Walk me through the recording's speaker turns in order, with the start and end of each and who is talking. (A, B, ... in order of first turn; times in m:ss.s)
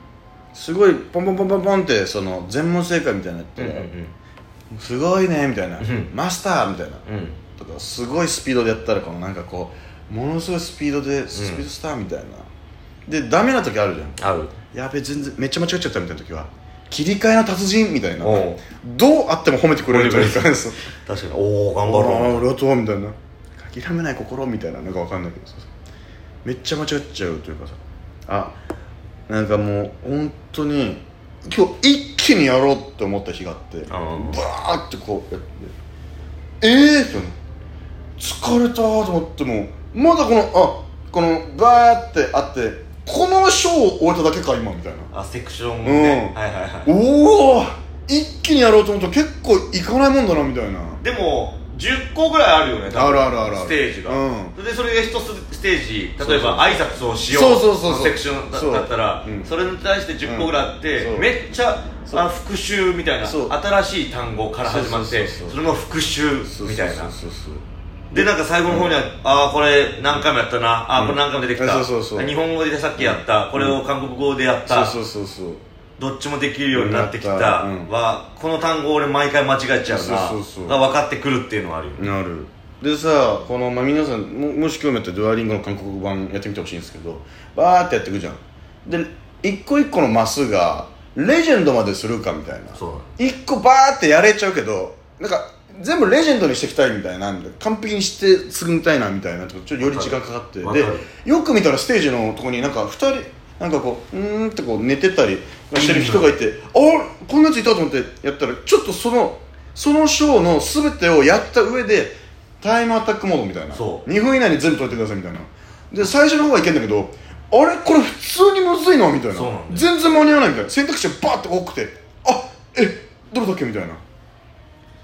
0:00.5-0:03.9 A
0:03.6-0:04.1 B
0:04.7-0:07.0 A
0:05.8-0:06.1 B
0:07.0-0:07.4 B
0:07.6-0:12.5 A
0:11.3-0:11.6 B
0:13.0-0:20.8 A
0:14.2-0:14.5 B
0:18.2-0:18.6 B
0:19.8-0:20.5 B
0:21.0-0:22.5 B
0:21.8-0:25.7 A
0:26.4-0:28.6 A
0:29.3-0:35.7 A
0:33.9-0:34.4 B
0:36.6-0:37.4 A
0:38.2-0:45.1 A
0:45.1-0:47.0 B
0:45.8-0:51.0 A
0:51.0-1:07.1 B
0:52.9-0:54.6 A
0:56.2-0:59.5 A
1:00.2-1:01.3 A
1:03.2-1:03.6 A
1:04.6-1:05.6 A
1:06.4-1:07.6 A
1:08.1-1:15.0 B
1:08.1-1:09.0 A
1:10.9-1:12.4 A
1:13.0-1:13.8 A
1:14.7-1:15.6 A
1:16.0-1:22.1 B
1:16.7-1:17.9 A
1:19.9-1:20.8 A
1:22.0-2:04.0 A
1:32.7-1:33.2 B
1:39.8-1:41.1 B
1:45.7-1:46.3 B
1:53.7-1:54.0 B
1:59.3-1:59.9 B